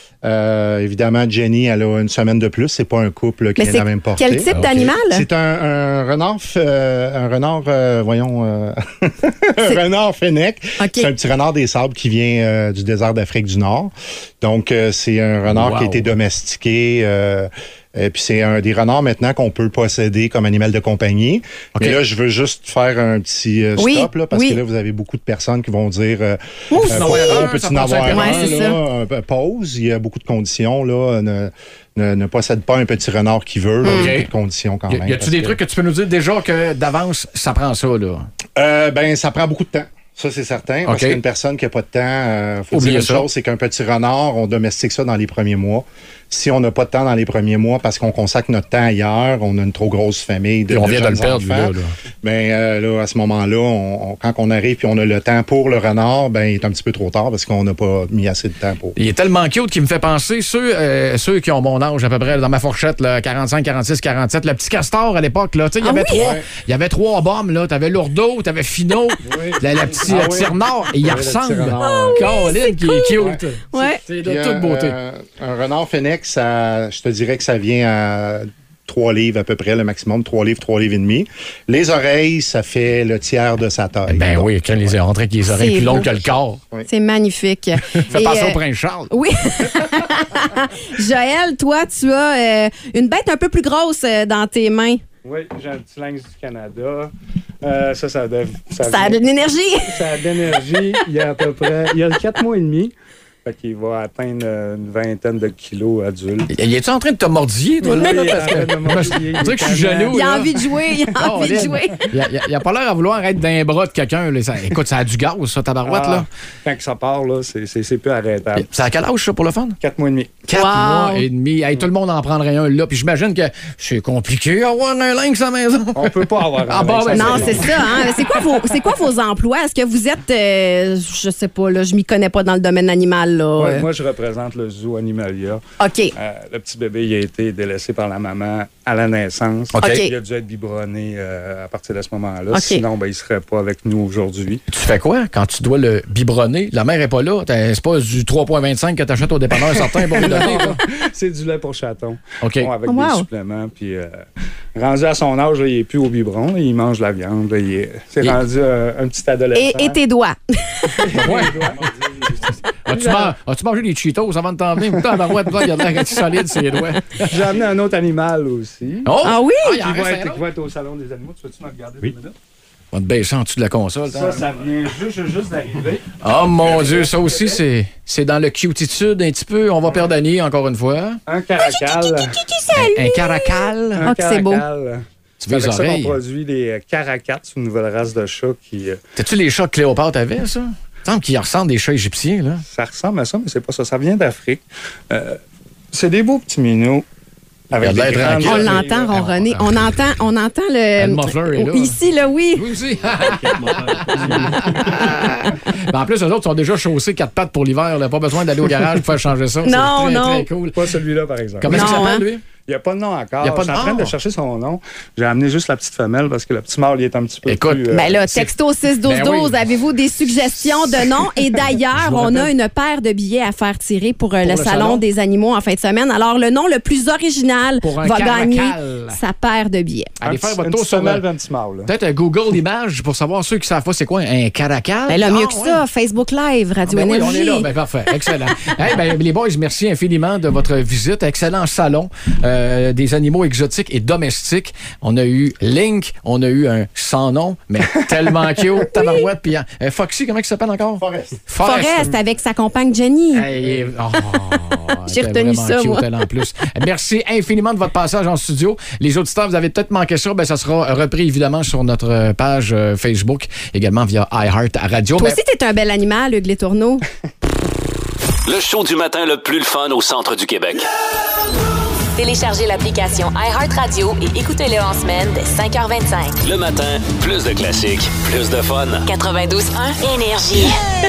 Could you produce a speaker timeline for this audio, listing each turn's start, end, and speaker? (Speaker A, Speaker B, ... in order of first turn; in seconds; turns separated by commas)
Speaker A: 0.2-4.5, Speaker B: 3.6-5.2, Speaker C: 4.5-4.9, Speaker A: 5.1-35.6, Speaker B: 10.8-11.1, Speaker C: 15.5-16.1, Speaker B: 23.8-24.6, Speaker B: 26.7-27.5, Speaker C: 26.8-28.7, Speaker B: 28.1-28.8, Speaker B: 33.9-34.1, Speaker C: 33.9-34.3, Speaker C: 34.9-38.3, Speaker A: 38.6-59.0, Speaker C: 40.9-41.2, Speaker C: 42.7-43.3, Speaker C: 50.7-51.9, Speaker C: 59.0-75.0, Speaker B: 65.8-66.3, Speaker A: 66.1-66.5, Speaker D: 69.3-70.3, Speaker A: 70.0-72.3, Speaker B: 71.8-73.2, Speaker B: 73.7-74.0, Speaker A: 74.2-84.7, Speaker C: 84.1-86.6, Speaker B: 85.5-86.1, Speaker B: 86.9-88.6, Speaker C: 88.1-89.1, Speaker B: 89.1-95.0, Speaker D: 95.2-97.1, Speaker D: 97.6-99.2, Speaker B: 98.8-100.0, Speaker D: 99.8-102.9, Speaker D: 103.5-106.5, Speaker C: 106.5-110.6, Speaker D: 107.8-110.4, Speaker B: 110.1-112.1, Speaker C: 111.2-116.3, Speaker D: 115.8-118.7, Speaker C: 118.6-119.8, Speaker D: 119.8-120.4, Speaker C: 120.5-128.3, Speaker B: 120.5-121.3, Speaker D: 125.9-128.0, Speaker B: 127.1-133.9, Speaker D: 133.6-135.6, Speaker B: 135.8-136.1, Speaker D: 136.2-144.6, Speaker C: 139.7-140.0, Speaker B: 139.8-140.1, Speaker B: 142.5-142.8, Speaker C: 144.7-150.8, Speaker D: 149.7-154.2, Speaker C: 152.4-152.7, Speaker B: 152.9-153.3, Speaker D: 154.8-160.0, Speaker B: 159.6-161.1, Speaker D: 160.9-163.3, Speaker C: 161.1-161.8, Speaker C: 162.8-167.5, Speaker D: 167.2-169.1, Speaker C: 169.1-170.4, Speaker B: 169.2-169.8, Speaker D: 169.8-172.3, Speaker C: 172.9-174.4, Speaker D: 174.1-177.6, Speaker C: 176.2-181.2, Speaker D: 181.3-182.4, Speaker B: 181.6-184.7, Speaker C: 182.7-184.1, Speaker D: 184.0-189.0, Speaker C: 185.4-186.2, Speaker C: 189.2-192.6, Speaker D: 192.7-195.4, Speaker D: 195.9-197.1, Speaker D: 197.7-199.2, Speaker C: 197.8-199.8, Speaker B: 198.4-202.7, Speaker C: 201.0-202.0, Speaker C: 202.6-210.9, Speaker D: 203.4-205.0, Speaker B: 209.7-210.5, Speaker D: 210.7-212.1, Speaker C: 211.6-212.4, Speaker B: 211.7-212.3, Speaker D: 212.6-218.1, Speaker C: 213.4-214.1, Speaker C: 217.5-218.5, Speaker B: 217.9-230.2, Speaker C: 219.0-219.7, Speaker C: 220.7-221.1, Speaker C: 222.0-222.5, Speaker C: 224.4-225.0, Speaker C: 227.8-229.2, Speaker C: 230.2-231.2, Speaker D: 230.2-231.9, Speaker C: 231.9-235.8, Speaker B: 235.1-237.7, Speaker C: 236.9-252.1, Speaker A: 251.0-251.4, Speaker B: 251.6-253.5, Speaker C: 253.3-265.4, Speaker B: 255.1-256.0, Speaker B: 265.2-267.1, Speaker E: 268.5-270.9, Speaker F: 272.2-276.4, Speaker E: 276.4-279.1, Speaker F: 279.1-280.8